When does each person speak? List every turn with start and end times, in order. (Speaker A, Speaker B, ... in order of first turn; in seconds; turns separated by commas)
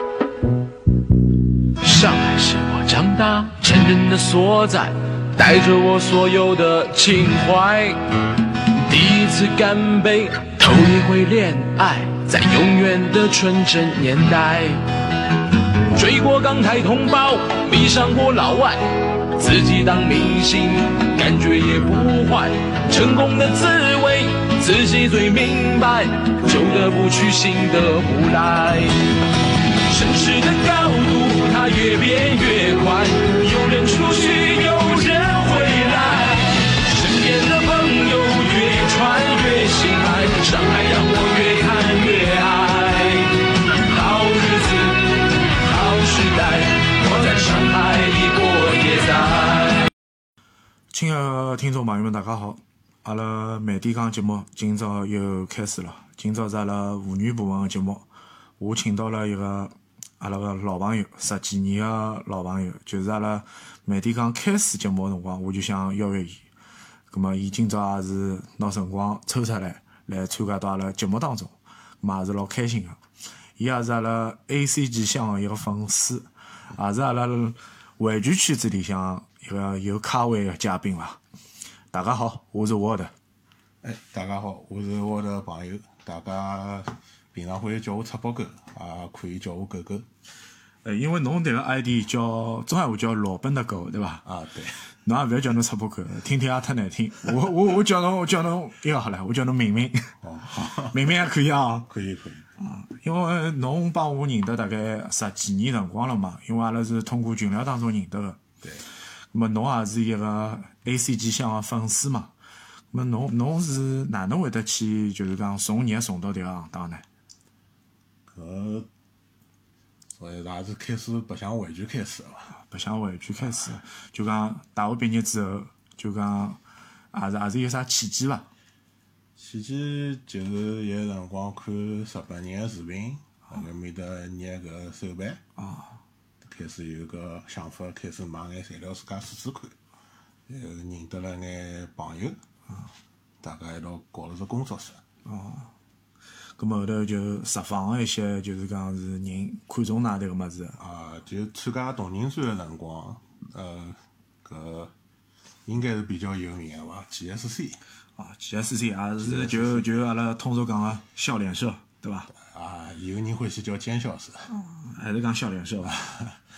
Speaker A: 1.8-8.0, Speaker A: 8.9-14.8, Speaker A: 15.9-29.1, Speaker A: 29.9-49.9, Speaker B: 50.9-58.1, Speaker B: 58.6-66.4, Speaker B: 67.1-73.0, Speaker B: 73.6-81.2, Speaker B: 81.9-83.1, Speaker C: 83.8-90.1, Speaker B: 90.8-94.2, Speaker C: 94.2-94.9, Speaker B: 95.0-100.2, Speaker C: 100.2-101.3, Speaker B: 100.9-101.9, Speaker C: 101.9-102.5, Speaker B: 102.6-108.4, Speaker C: 108.6-108.9, Speaker B: 109.3-112.3, Speaker B: 112.9-117.0, Speaker C: 118.3-118.9, Speaker C: 120.2-122.6, Speaker B: 122.5-126.6, Speaker B: 127.1-128.5, Speaker C: 129.4-135.4, Speaker B: 135.6-136.0, Speaker C: 136.4-139.8, Speaker C: 140.5-142.4, Speaker C: 143.4-145.0, Speaker B: 145.2-145.7, Speaker B: 146.6-150.8, Speaker C: 150.8-154.9, Speaker C: 155.7-157.8, Speaker B: 158.2-162.3, Speaker C: 159.2-159.9, Speaker C: 162.3-164.5, Speaker B: 164.5-166.0, Speaker C: 165.9-166.4